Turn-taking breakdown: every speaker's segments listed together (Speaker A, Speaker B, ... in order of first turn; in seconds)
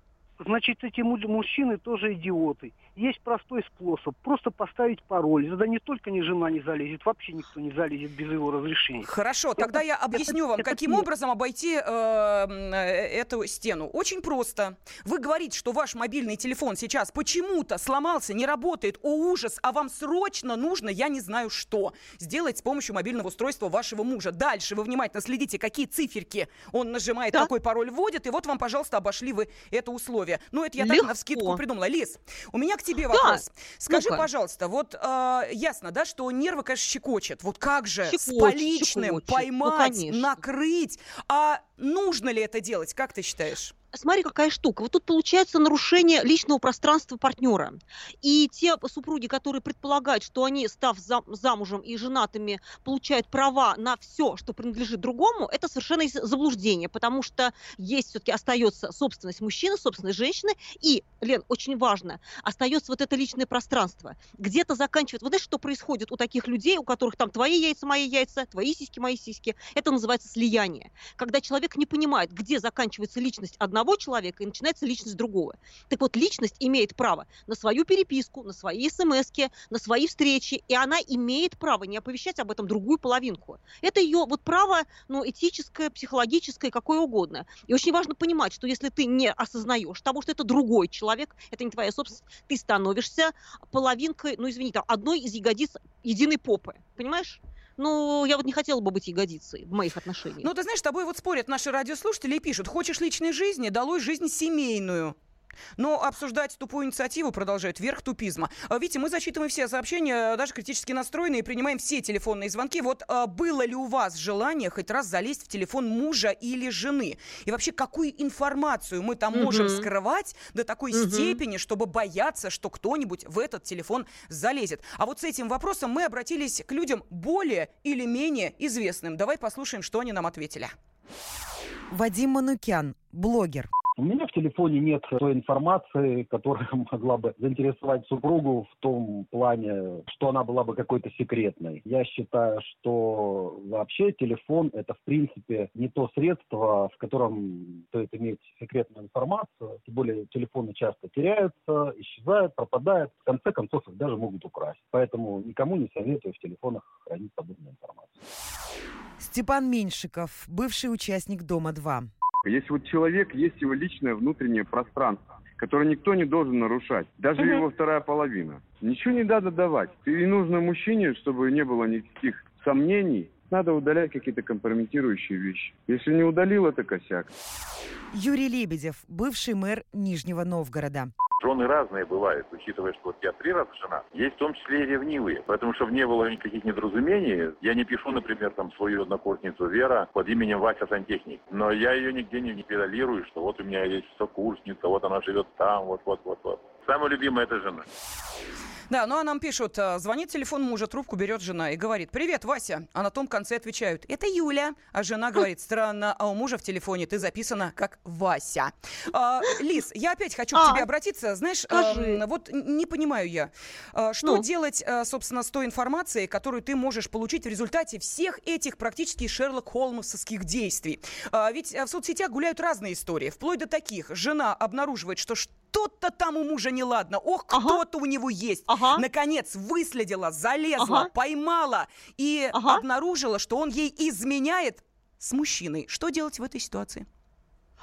Speaker A: 0.4-9.1, 9.6-11.1
Speaker B: 9.0-43.7, 100.4-105.2, 105.8-130.7, 198.9-237.1
Speaker C: 30.8-31.6, 33.1-34.2, 38.1-40.4, 43.9-100.5, 119.3-119.9, 120.9-121.4, 210.6-210.8, 211.7-212.2, 227.5-227.8, 228.7-229.0, 230.8-231.1, 232.5-232.8
Speaker D: 131.9-133.7, 159.2-162.1, 178.1-181.1
Speaker E: 134.0-158.2
Speaker F: 162.4-177.3
Speaker G: 181.4-197.9